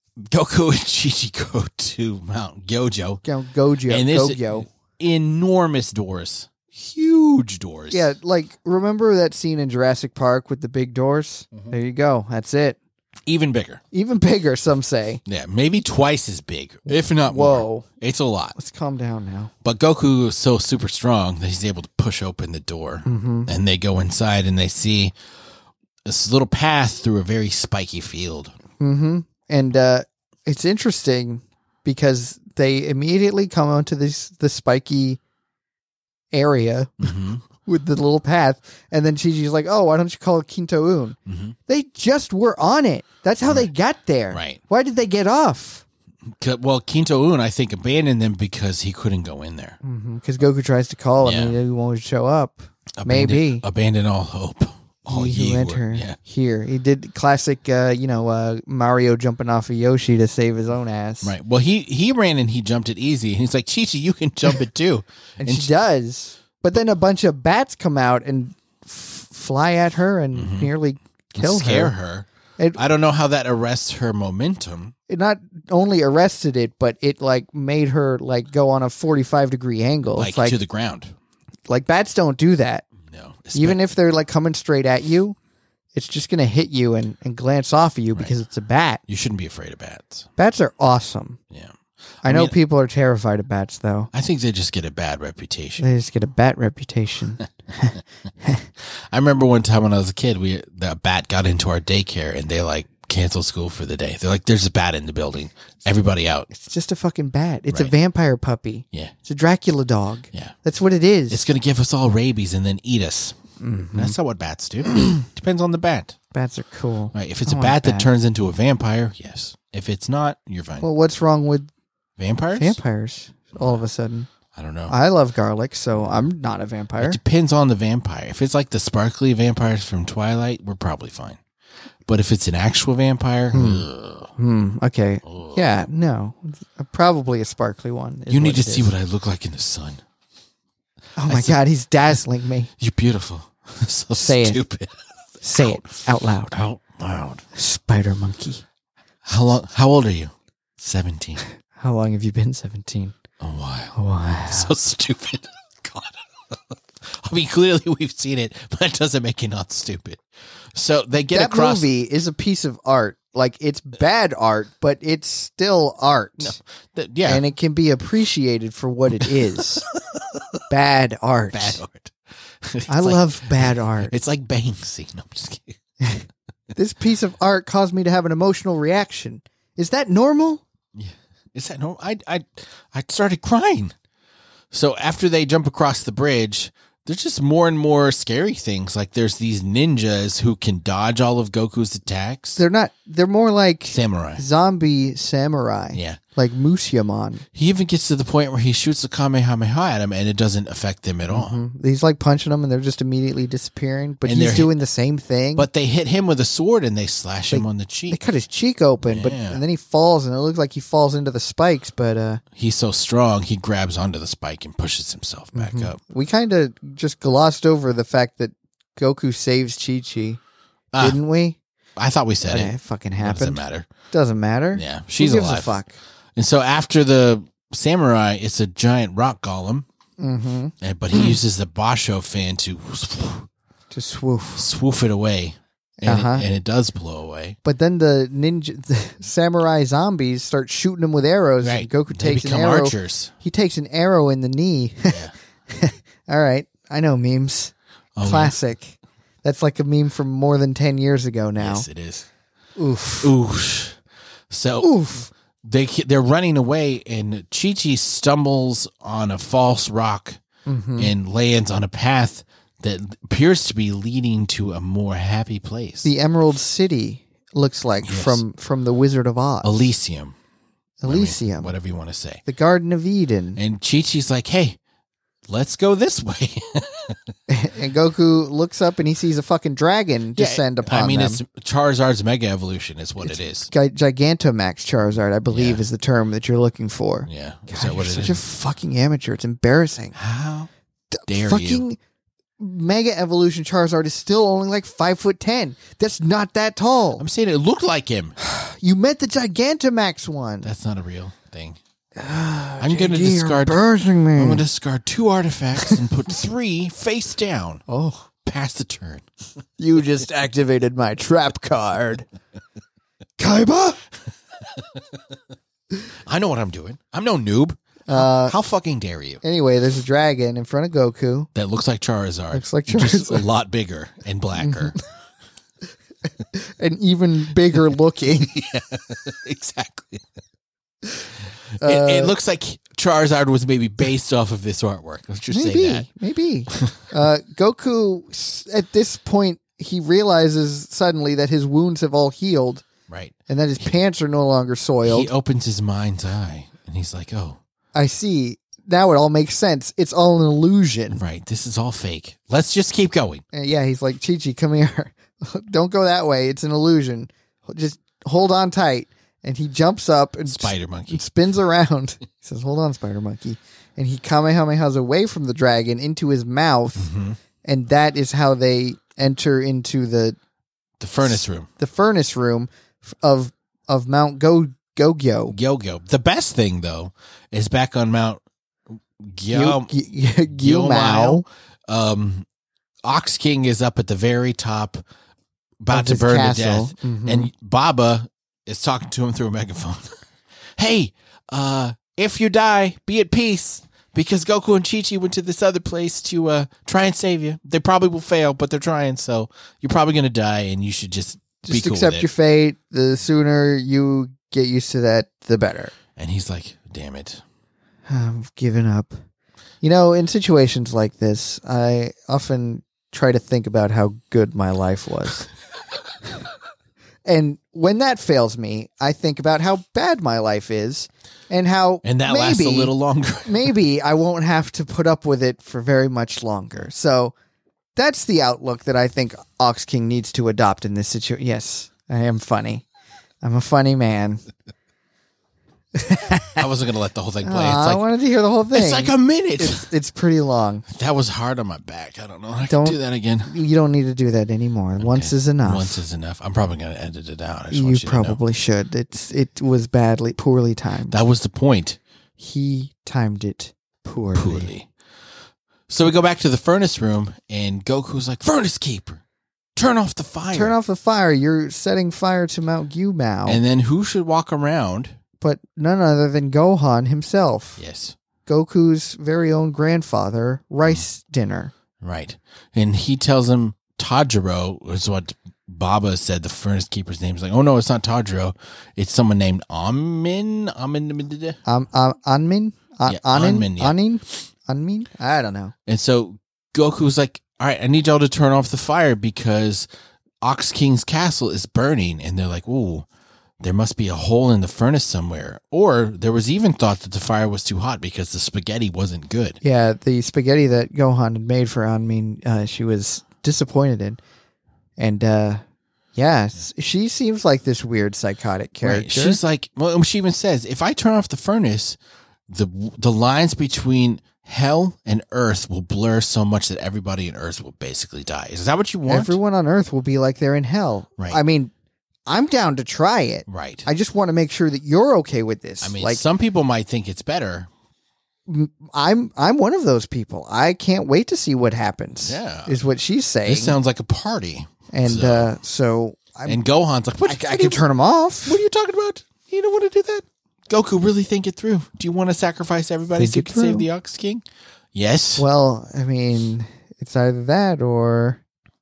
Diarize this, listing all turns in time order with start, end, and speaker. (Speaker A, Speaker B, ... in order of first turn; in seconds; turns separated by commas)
Speaker A: 0.2-3.2, Speaker B: 3.2-4.7, Speaker A: 3.9-8.1, Speaker B: 7.9-12.8, Speaker A: 13.3-13.8, Speaker B: 13.9-15.2, Speaker A: 15.3-18.6, Speaker B: 16.9-17.9, Speaker B: 18.6-19.5, Speaker A: 19.6-25.1, Speaker B: 23.1-23.5, Speaker A: 26.1-28.5, Speaker B: 28.8-35.2, Speaker B: 36.3-37.1, Speaker A: 37.0-37.4, Speaker B: 37.6-45.9, Speaker A: 41.3-41.5, Speaker A: 44.3-44.6, Speaker A: 46.4-49.8, Speaker B: 49.8-53.6, Speaker A: 51.2-51.6, Speaker A: 53.0-56.2, Speaker B: 55.1-61.3, Speaker A: 61.2-65.7, Speaker B: 65.4-71.9, Speaker A: 70.3-70.7, Speaker A: 71.4-74.9, Speaker B: 75.1-80.6, Speaker A: 80.2-81.1, Speaker B: 81.7-82.9, Speaker A: 83.0-83.8, Speaker B: 83.5-85.4, Speaker B: 85.9-89.0, Speaker A: 89.1-90.3, Speaker B: 90.4-91.4, Speaker A: 91.5-92.5, Speaker B: 92.2-94.1, Speaker A: 94.1-95.8, Speaker B: 95.8-98.6, Speaker A: 99.1-106.5, Speaker B: 106.5-111.5, Speaker A: 111.3-113.4, Speaker B: 113.6-114.2, Speaker A: 114.0-116.2, Speaker B: 114.9-115.2, Speaker B: 116.3-118.1, Speaker A: 117.1-120.9, Speaker B: 120.8-121.7, Speaker A: 122.2-122.8, Speaker B: 122.6-124.3, Speaker A: 124.5-124.9, Speaker B: 124.9-127.2, Speaker A: 127.0-131.4, Speaker A: 132.1-134.3, Speaker B: 133.5-138.9, Speaker A: 135.3-135.6, Speaker A: 138.3-140.0, Speaker B: 141.2-142.7, Speaker A: 141.3-141.6, Speaker A: 142.8-144.9, Speaker B: 144.2-144.6, Speaker B: 145.4-146.6, Speaker A: 145.6-145.9, Speaker A: 146.5-147.4, Speaker B: 147.5-148.6, Speaker A: 149.2-151.4, Speaker B: 151.8-153.2, Speaker A: 153.4-154.0, Speaker B: 153.9-154.7, Speaker A: 154.5-160.2, Speaker A: 160.7-161.9, Speaker B: 161.3-166.6, Speaker A: 166.4-167.4, Speaker B: 167.3-169.8, Speaker A: 169.3-170.6, Speaker B: 170.7-171.8, Speaker A: 171.5-175.8, Speaker B: 172.9-174.1, Speaker B: 176.0-180.6, Speaker A: 180.9-183.9, Speaker A: 184.7-192.6, Speaker B: 192.6-197.4, Speaker A: 193.9-194.4, Speaker A: 195.9-196.2, Speaker A: 197.6-201.6, Speaker B: 201.3-205.7, Speaker A: 204.2-204.7, Speaker A: 205.6-208.2, Speaker B: 207.5-212.4, Speaker A: 209.0-209.6, Speaker A: 212.6-216.0, Speaker B: 215.6-220.4, Speaker A: 220.9-221.2, Speaker B: 221.0-221.6, Speaker A: 222.0-223.9, Speaker B: 222.4-226.0, Speaker A: 224.8-225.8, Speaker A: 226.4-229.9, Speaker B: 230.2-231.4, Speaker A: 230.8-233.5, Speaker B: 233.9-234.7, Speaker A: 234.6-237.6, Speaker B: 236.0-236.5, Speaker B: 237.6-251.9, Speaker A: 241.6-243.3, Speaker A: 248.2-248.6, Speaker A: 251.6-252.3, Speaker B: 252.8-253.3, Speaker A: 253.2-254.0, Speaker A: 254.5-255.0, Speaker B: 254.8-255.3, Speaker A: 255.6-260.4, Speaker B: 260.7-261.1, Speaker A: 261.0-266.1, Speaker B: 266.0-269.9, Speaker A: 268.0-268.4, Speaker A: 269.6-270.4, Speaker B: 271.0-271.7, Speaker A: 271.1-272.4, Speaker B: 272.5-273.6, Speaker A: 273.6-274.8, Speaker A: 275.5-277.3, Speaker B: 277.5-281.4, Speaker A: 280.4-283.7, Speaker B: 283.2-290.2, Speaker A: 285.5-285.8, Speaker A: 287.3-288.4, Speaker A: 290.1-290.7, Speaker B: 291.1-292.0, Speaker A: 291.3-291.9, Speaker B: 292.6-297.2, Speaker A: 297.2-298.4, Speaker B: 298.4-300.7, Speaker A: 300.6-301.8, Speaker B: 302.2-304.6, Speaker A: 302.8-307.8, Speaker B: 307.9-308.3, Speaker A: 308.4-309.2, Speaker B: 309.8-312.3, Speaker B: 313.4-314.0, Speaker A: 316.3-319.4, Speaker B: 318.1-318.6, Speaker B: 319.4-321.5, Speaker A: 321.6-325.0, Speaker B: 322.5-323.4, Speaker B: 324.6-325.0, Speaker B: 326.5-328.6, Speaker A: 328.3-330.3, Speaker B: 331.8-332.4, Speaker A: 331.8-336.1, Speaker B: 335.5-342.9, Speaker A: 336.7-337.1, Speaker A: 343.1-343.9, Speaker B: 343.5-345.3, Speaker A: 345.0-347.6, Speaker B: 347.9-351.2, Speaker A: 351.1-353.4, Speaker B: 353.5-367.1, Speaker A: 360.5-361.2, Speaker A: 367.0-367.4, Speaker B: 367.6-370.4, Speaker A: 371.0-371.7, Speaker B: 371.2-375.6, Speaker A: 375.5-378.4, Speaker A: 379.2-379.9, Speaker B: 379.5-381.4, Speaker A: 380.5-382.5, Speaker A: 383.1-385.0, Speaker A: 385.8-390.2, Speaker B: 385.9-387.5, Speaker A: 390.8-402.3, Speaker B: 401.6-405.9, Speaker A: 406.2-407.4, Speaker B: 408.1-409.1, Speaker B: 409.8-415.5, Speaker B: 417.2-427.3, Speaker A: 422.0-423.7, Speaker B: 428.0-432.9, Speaker B: 433.4-434.4, Speaker B: 435.9-436.6, Speaker A: 436.5-438.0, Speaker B: 437.4-440.9, Speaker A: 438.7-439.9, Speaker A: 440.9-443.5, Speaker B: 442.7-446.0, Speaker A: 445.0-448.4, Speaker B: 447.7-451.2, Speaker A: 451.1-452.0, Speaker B: 452.4-454.7, Speaker A: 454.4-454.9, Speaker A: 455.9-459.2, Speaker A: 459.8-460.8, Speaker B: 460.5-463.6, Speaker A: 463.5-465.2, Speaker B: 465.4-467.8, Speaker A: 467.8-468.1, Speaker B: 468.5-471.7, Speaker A: 472.0-481.6, Speaker B: 481.7-485.7, Speaker A: 483.1-484.0, Speaker A: 485.9-489.9, Speaker A: 490.4-493.1, Speaker A: 493.6-499.6, Speaker B: 499.6-504.2, Speaker B: 505.0-505.6, Speaker B: 506.1-509.4, Speaker A: 508.8-512.0, Speaker A: 512.5-519.4, Speaker B: 519.1-521.7, Speaker B: 522.3-526.2, Speaker A: 523.5-523.9, Speaker A: 525.8-527.7, Speaker B: 528.5-533.8, Speaker A: 532.2-532.8, Speaker A: 533.5-535.5, Speaker B: 534.9-536.6, Speaker A: 536.5-537.8, Speaker B: 537.2-538.6, Speaker A: 538.5-544.4, Speaker B: 543.2-543.9, Speaker A: 545.0-545.5, Speaker B: 545.4-548.4